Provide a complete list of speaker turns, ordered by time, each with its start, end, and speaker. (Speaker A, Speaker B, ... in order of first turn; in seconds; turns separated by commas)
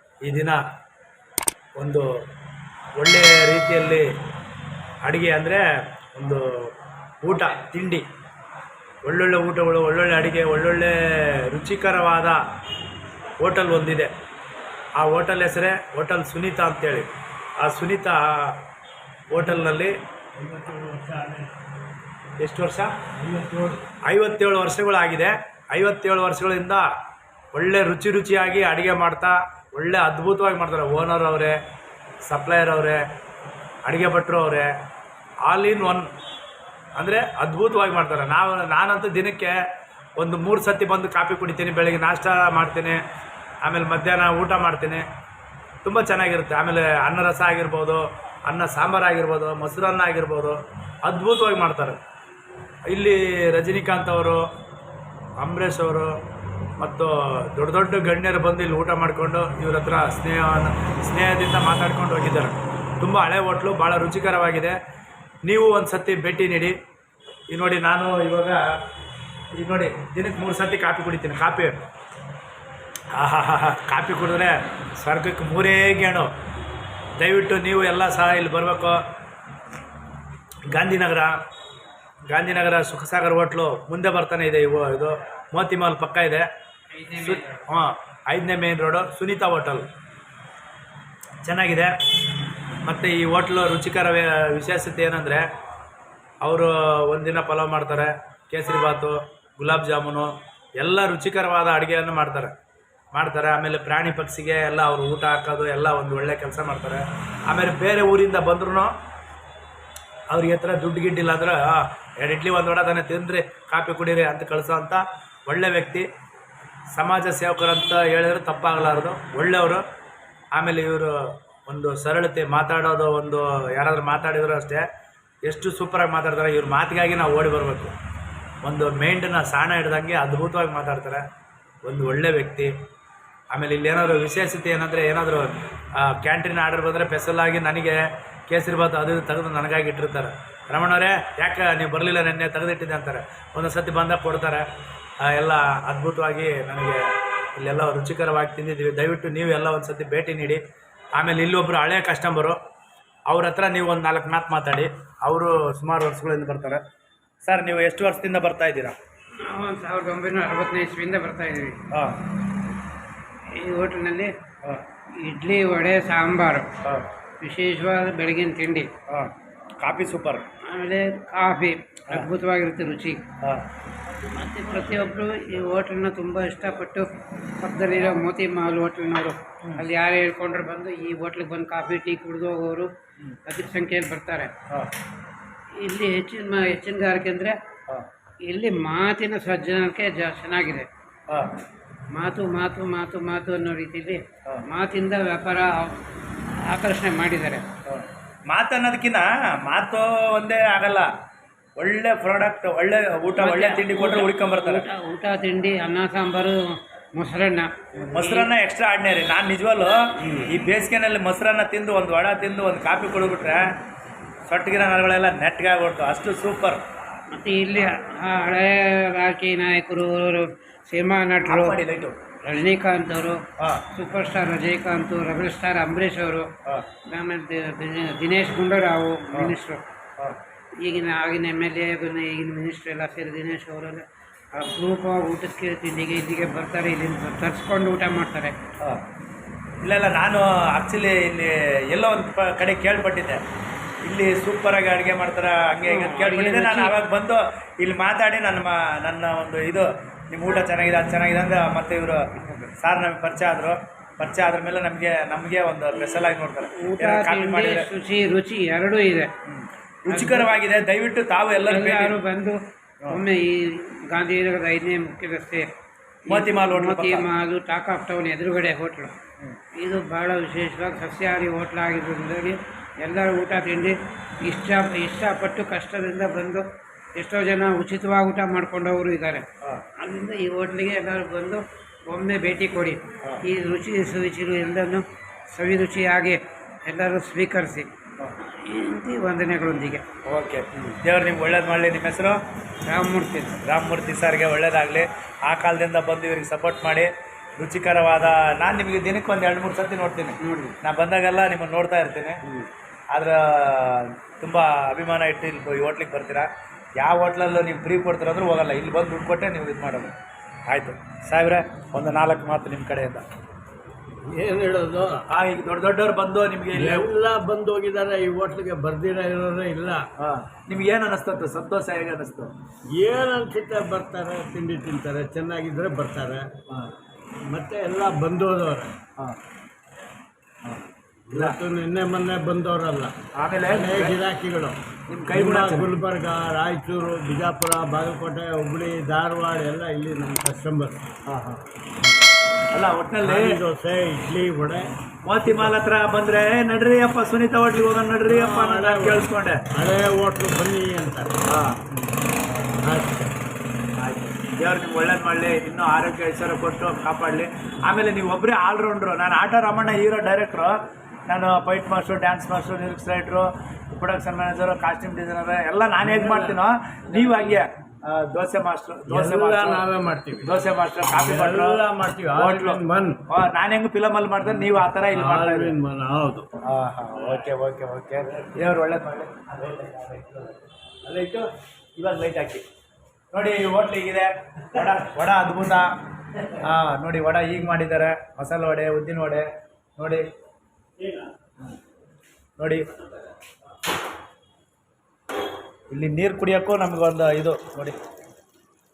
Speaker A: 0.2-0.6, Speaker A: 1.8-2.1, Speaker A: 3.0-4.1, Speaker A: 5.0-5.6, Speaker A: 6.1-6.7, Speaker A: 7.2-8.1, Speaker A: 9.1-12.4, Speaker A: 13.4-14.1, Speaker A: 15.0-18.6, Speaker A: 19.3-19.9, Speaker B: 20.4-21.5, Speaker A: 22.4-23.0, Speaker B: 23.2-23.8, Speaker A: 24.1-26.9, Speaker A: 27.5-31.6, Speaker A: 32.2-33.0, Speaker A: 33.9-34.7, Speaker A: 35.5-36.1, Speaker A: 37.0-39.6, Speaker A: 40.2-43.0, Speaker A: 43.6-45.0, Speaker A: 45.8-52.0, Speaker A: 52.9-54.5, Speaker A: 55.4-56.1, Speaker A: 56.8-64.8, Speaker A: 65.5-66.8, Speaker A: 67.5-68.6, Speaker A: 69.6-71.8, Speaker A: 73.1-76.3, Speaker A: 77.2-79.0, Speaker A: 80.7-81.3, Speaker A: 82.3-86.5, Speaker C: 86.9-87.7, Speaker A: 87.1-89.9, Speaker A: 91.4-91.9, Speaker A: 92.8-95.4, Speaker A: 96.4-102.6, Speaker A: 103.1-108.9, Speaker A: 110.3-116.1, Speaker A: 117.0-119.8, Speaker A: 120.5-124.8, Speaker A: 125.5-127.9, Speaker A: 128.6-131.3, Speaker A: 131.9-132.7, Speaker A: 133.5-144.7, Speaker A: 145.2-147.0, Speaker A: 147.6-150.6, Speaker A: 151.2-152.6, Speaker A: 153.3-156.8, Speaker A: 157.4-159.0, Speaker C: 159.4-161.8, Speaker A: 161.9-162.2, Speaker C: 163.5-164.3, Speaker C: 165.2-166.7, Speaker C: 167.4-168.9, Speaker A: 169.1-170.4, Speaker C: 170.7-173.2, Speaker C: 174.3-177.1, Speaker C: 177.6-182.9, Speaker C: 183.5-184.5, Speaker C: 185.8-187.6, Speaker C: 188.4-190.9, Speaker C: 192.1-197.7, Speaker A: 197.9-201.1, Speaker A: 201.8-204.9, Speaker C: 203.4-208.5, Speaker A: 208.0-213.7, Speaker A: 214.5-216.8, Speaker C: 217.3-221.8, Speaker A: 221.5-222.2, Speaker C: 222.4-226.5, Speaker A: 223.6-223.9, Speaker C: 227.1-229.8, Speaker A: 229.3-229.6, Speaker C: 230.8-238.6, Speaker A: 239.8-243.4, Speaker A: 244.0-257.9, Speaker C: 245.8-247.0, Speaker C: 256.7-259.3, Speaker A: 259.5-262.2, Speaker C: 260.1-260.5, Speaker C: 261.6-265.7, Speaker C: 266.3-269.1, Speaker A: 266.3-267.3, Speaker C: 269.8-279.5, Speaker C: 280.0-290.0, Speaker A: 290.3-292.4, Speaker C: 292.9-293.6, Speaker A: 293.6-302.4, Speaker C: 300.4-300.8, Speaker A: 303.1-310.1, Speaker A: 310.7-313.2, Speaker B: 314.2-315.2, Speaker A: 315.3-317.1, Speaker B: 316.7-320.1, Speaker A: 320.2-322.5, Speaker B: 322.9-326.6, Speaker B: 327.5-328.9, Speaker A: 330.6-331.6, Speaker B: 331.3-333.1, Speaker A: 333.3-334.2, Speaker B: 333.7-334.8, Speaker A: 335.1-335.9, Speaker B: 335.3-341.0, Speaker A: 341.3-341.6, Speaker A: 342.7-343.6, Speaker B: 343.2-344.9, Speaker A: 345.2-349.6, Speaker B: 345.4-345.7, Speaker B: 348.3-351.3, Speaker A: 351.5-351.9, Speaker B: 352.8-353.3, Speaker A: 354.0-369.9, Speaker B: 366.0-366.6, Speaker B: 367.1-367.6, Speaker B: 369.1-370.5, Speaker A: 370.4-371.8, Speaker B: 371.1-373.2, Speaker A: 372.3-375.8, Speaker B: 375.1-376.5, Speaker A: 376.6-382.6, Speaker A: 383.3-385.9, Speaker A: 386.5-390.2, Speaker A: 392.6-392.9, Speaker A: 395.9-398.0